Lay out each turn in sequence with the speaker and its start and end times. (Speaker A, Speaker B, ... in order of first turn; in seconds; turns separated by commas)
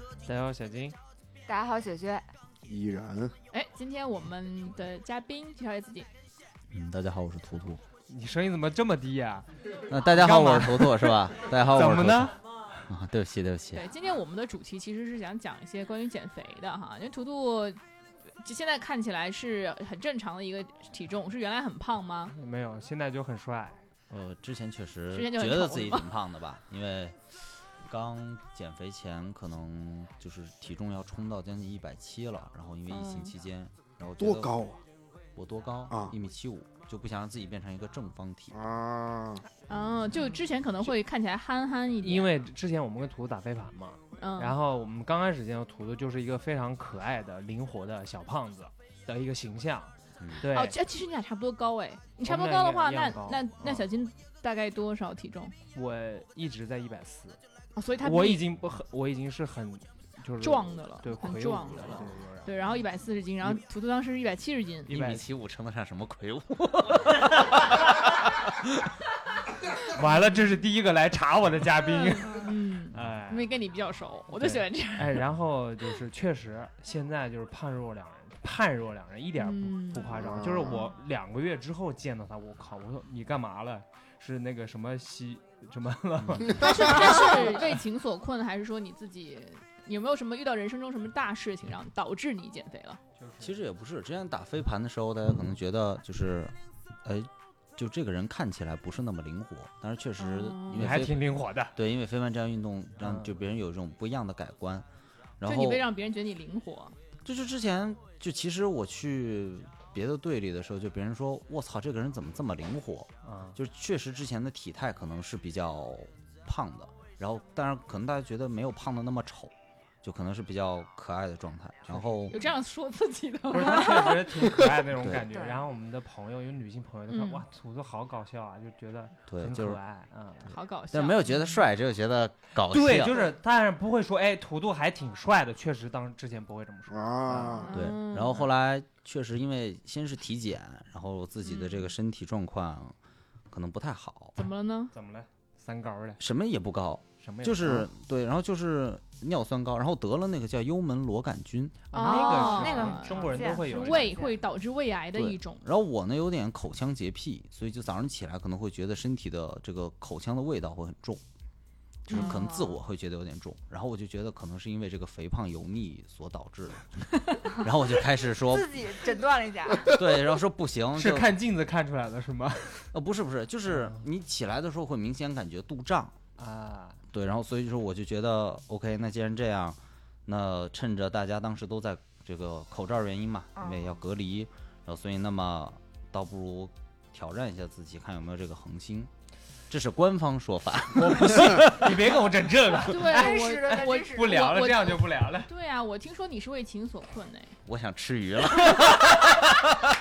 Speaker A: 0.3-1.0, Speaker B: 1.5-2.3, Speaker C: 2.7-3.4, Speaker D: 3.5-6.1, Speaker E: 6.7-7.8, Speaker A: 8.1-12.4, Speaker E: 9.9-12.3, Speaker E: 12.9-13.9, Speaker D: 13.7-17.8, Speaker D: 18.4-22.4, Speaker A: 22.4-23.8, Speaker E: 24.1-34.7, Speaker D: 25.1-26.1, Speaker D: 32.9-33.3, Speaker C: 34.2-34.8, Speaker E: 35.4-38.6, Speaker C: 35.9-36.1, Speaker C: 38.5-39.5, Speaker D: 39.7-42.3, Speaker A: 42.0-50.8, Speaker D: 44.2-44.6, Speaker D: 50.5-55.5, Speaker A: 52.2-53.9, Speaker A: 55.7-57.4, Speaker D: 57.8-58.4, Speaker A: 58.0-62.8, Speaker D: 60.4-64.9, Speaker E: 64.9-68.5, Speaker A: 64.9-65.2, Speaker A: 69.9-73.5, Speaker D: 71.9-75.2, Speaker A: 74.3-87.6, Speaker D: 79.4-80.4, Speaker C: 80.1-80.8, Speaker E: 86.2-86.5, Speaker D: 86.6-93.0, Speaker A: 93.2-93.5, Speaker E: 93.4-104.9, Speaker D: 100.2-100.9, Speaker A: 100.8-101.8, Speaker A: 103.0-103.3, Speaker E: 105.4-105.9, Speaker D: 105.5-107.0, Speaker E: 107.2-122.4, Speaker A: 113.2-113.6, Speaker A: 121.9-122.4, Speaker D: 122.3-124.2, Speaker A: 123.5-130.5, Speaker E: 125.0-125.2, Speaker B: 125.3-125.6, Speaker D: 127.1-127.4, Speaker E: 129.3-129.8, Speaker D: 130.5-131.6, Speaker E: 130.9-133.2, Speaker A: 132.7-137.7, Speaker C: 136.9-137.7, Speaker D: 137.6-138.5, Speaker E: 137.7-142.9, Speaker E: 143.5-144.3, Speaker D: 144.3-144.9, Speaker A: 144.9-146.2, Speaker E: 146.2-151.9, Speaker A: 147.2-147.9, Speaker A: 151.9-154.2, Speaker D: 151.9-155.7, Speaker B: 152.0-154.4, Speaker E: 155.1-161.2, Speaker D: 162.1-162.4, Speaker B: 162.1-162.8, Speaker E: 162.1-166.9, Speaker E: 167.5-168.8, Speaker B: 168.4-170.0, Speaker E: 169.9-171.3, Speaker A: 170.9-172.9, Speaker E: 172.9-176.2, Speaker A: 173.7-174.0, Speaker A: 176.4-177.0, Speaker E: 177.1-189.1, Speaker B: 183.6-183.9, Speaker E: 189.7-191.9, Speaker A: 190.9-195.5, Speaker D: 192.8-197.6, Speaker B: 192.9-194.6, Speaker E: 197.7-199.5